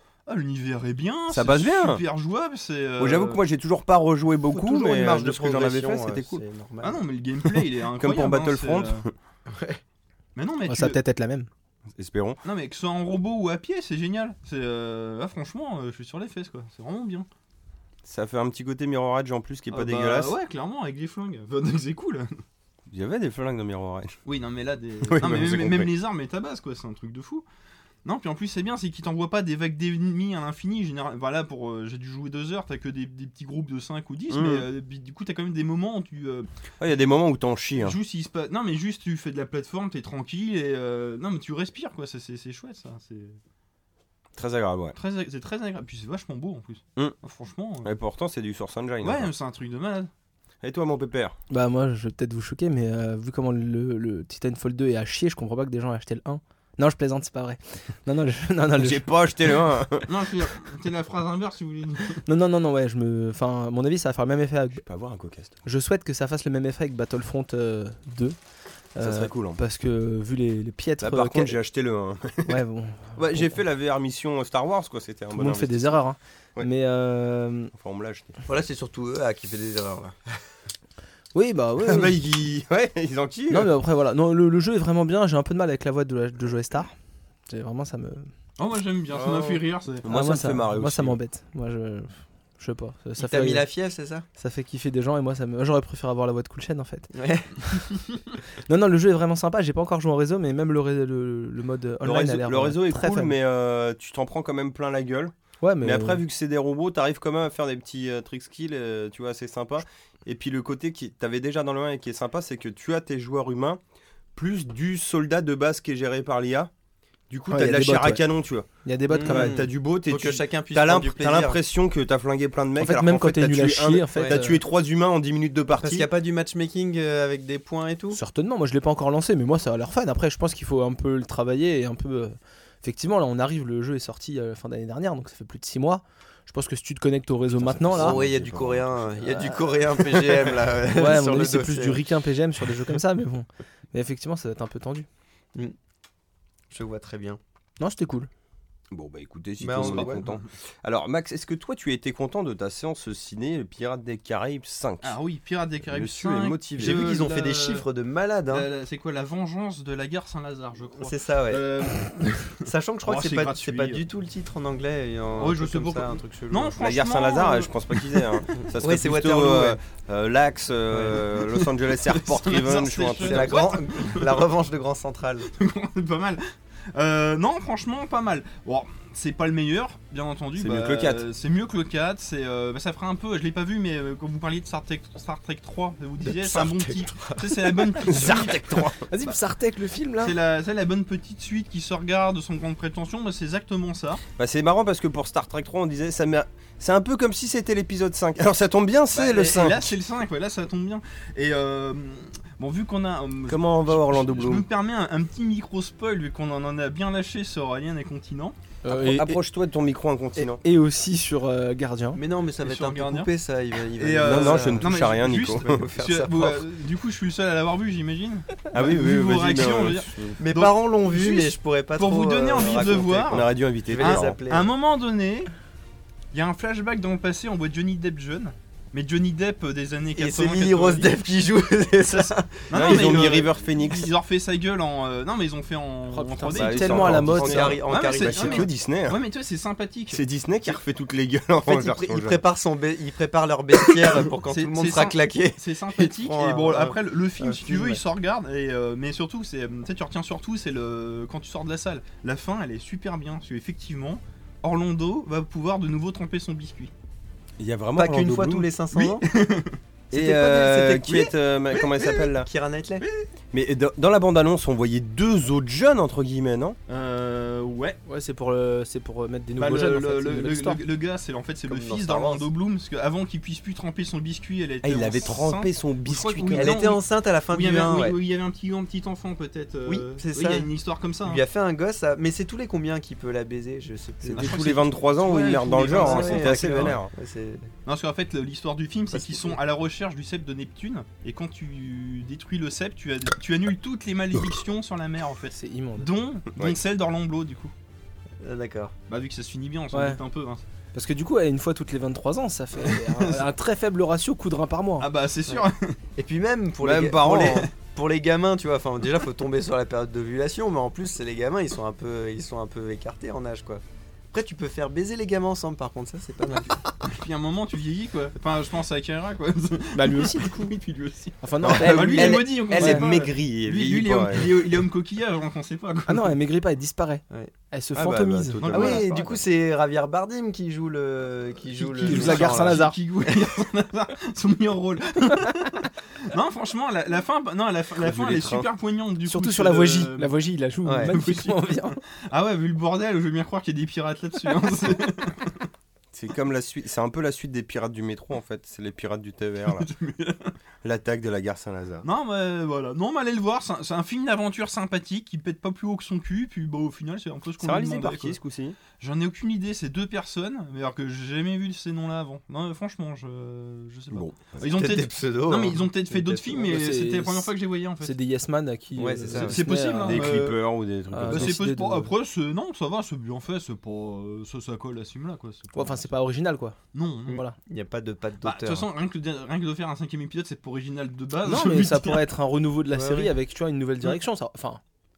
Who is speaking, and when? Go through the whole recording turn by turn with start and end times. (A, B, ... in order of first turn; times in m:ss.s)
0:00.3-0:03.4 A
0:01.3-0:02.0 B
0:03.0-0:06.4 B
0:04.5-0:07.0 C
0:06.8-0:09.0 A
0:07.4-0:09.1 B
0:09.5-0:09.8 C
0:10.4-0:11.0 A
0:10.7-0:11.5 D
0:12.0-0:12.4 B
0:12.4-0:17.3 A
0:18.0-0:20.3 B
0:19.7-0:22.4 A
0:22.9-0:24.2 B
0:24.2-0:27.5 A
0:25.0-0:25.9 B
0:28.0-0:36.5 A
0:34.3-0:34.7 B
0:36.8-0:38.0 B
0:37.8-0:43.4 A
0:44.4-0:45.0 B
0:45.0-0:47.9 A
0:47.8-0:49.3 B
0:49.0-0:50.1 A
0:50.6-0:51.4 B
0:51.5-0:59.1 D
0:58.8-1:00.1 B
1:00.1-1:02.2 A
1:02.3-1:04.8 D
1:04.8-1:05.6 B
1:05.6-1:08.4 D
1:09.0-1:11.6 D
1:09.0-1:09.6 B
1:11.0-1:12.6 B
1:12.5-1:13.6 D
1:13.2-1:16.0 B
1:15.4-1:17.7 D
1:17.7-1:18.3 B
1:18.5-1:20.2 C
1:21.3-1:22.2 D
1:21.8-1:23.7 B
1:23.5-1:27.0 D
1:27.5-1:28.3 D
1:28.6-1:30.1 A
1:29.2-1:31.2 B
1:30.1-1:33.7 D
1:33.2-1:34.2 C
1:34.4-1:37.9 D
1:37.1-1:37.7 C
1:38.6-1:43.3 D
1:42.0-1:53.8 B
1:45.6-1:46.2 D
1:54.4-1:56.7 B
1:57.3-1:58.7 B
1:57.5-1:58.2 D
1:58.8-1:59.7 D
1:59.1-2:01.6 C
1:59.2-2:06.1 B
2:02.8-2:04.6 D
2:05.8-2:08.2 C
2:08.1-2:18.2 D
2:17.5-2:19.1 B
2:17.9-2:22.0 C
2:19.3-2:20.3 D
2:20.8-2:25.1 D
2:26.7-2:27.4 C
2:27.8-2:28.3 D
2:28.9-2:35.2 B
2:29.6-2:30.3 C
2:29.8-2:30.5 A
2:35.0-2:37.9 A
2:35.9-2:37.0 B
2:36.8-2:38.7 C
2:38.5-2:44.0 A
2:41.0-2:41.8 C
2:42.6-2:46.8 C
2:45.4-2:48.4 A
2:46.8-2:53.6 B
2:48.6-2:49.8 C
2:50.9-2:51.2 C
2:51.9-2:54.5 A
2:53.2-2:55.5 C
2:55.5-2:56.4 A
2:56.9-3:09.3 A
3:00.6-3:01.2 B
3:06.3-3:08.1 C
3:08.0-3:09.1 B
3:09.1-3:10.4 D
3:10.2-3:14.2 A
3:14.4-3:19.9 B
3:19.1-3:28.6 A
3:23.5-3:24.7 B
3:28.8-3:29.4 D
3:28.9-3:30.6 B
3:30.4-3:32.2 D
3:32.1-3:36.6 C
3:32.6-3:33.3 A
3:34.0-3:45.5 A
3:34.2-3:35.8 B
3:38.7-3:40.4 B
3:40.4-3:44.7 C
3:43.0-3:44.4 B
3:46.3-3:51.2 A
3:50.2-3:53.4 C
3:52.1-4:00.2 A
3:52.7-3:54.1 B
3:56.1-3:57.8 D
3:56.5-3:59.2 B
3:57.1-3:58.7 C
4:00.1-4:02.4 B
4:01.7-4:08.0 C
4:04.4-4:16.9 A
4:17.6-4:18.7 B
4:18.0-4:19.3 C
4:18.9-4:19.8 A
4:20.1-4:21.3 C
4:20.1-4:22.5 B
4:22.4-4:23.0 C
4:23.0-4:23.3 A
4:23.5-4:26.8 B
4:26.9-4:28.0 A
4:28.1-4:30.8 D
4:29.6-4:41.4 A
4:31.7-4:32.5 C
4:34.8-4:36.8 B
4:36.6-4:38.2 C
4:39.9-4:40.7 C
4:41.2-4:44.7 C
4:44.2-4:47.1 B
4:44.4-4:47.0 A
4:45.8-4:47.7 C
4:47.9-4:57.7 A
4:49.1-4:49.6 C
4:55.6-4:56.1 D
4:58.4-4:58.9 C
4:59.1-5:00.6 A
4:59.9-5:00.2 D
5:00.9-5:05.1 D
5:02.8-5:03.5 A
5:05.0-5:06.0 A
5:06.2-5:16.8 C
5:06.8-5:07.7 B
5:17.0-5:26.4 A
5:20.0-5:20.7 D
5:21.4-5:23.0 D
5:21.6-5:24.6 B
5:26.1-5:29.0 D
5:27.9-5:29.4 B
5:28.7-5:32.8 C
5:28.7-5:29.0 A
5:31.8-5:40.4 A
5:32.0-5:33.0 D
5:38.0-5:38.7 B
5:39.3-5:42.0 D
5:40.8-5:41.2 C
5:41.0-5:45.7 A
5:46.1-5:49.9 B
5:49.7-5:50.5 A
5:50.8-5:52.1 B
5:52.0-5:58.4 A
5:57.6-5:58.8 B
5:59.0-6:08.2 A
6:04.1-6:04.6 B
6:04.6-6:06.7 C
6:06.7-6:10.4 D
6:09.0-6:09.7 C
6:09.4-6:10.6 A
6:10.0-6:11.6 B
6:11.1-6:12.1 D
6:11.3-6:16.1 A
6:15.7-6:16.8 D
6:16.9-6:17.4 A
6:17.3-6:18.9 C
6:17.3-6:17.6 D
6:18.4-6:22.3 A
6:21.4-6:24.8 D
6:22.9-6:23.3 C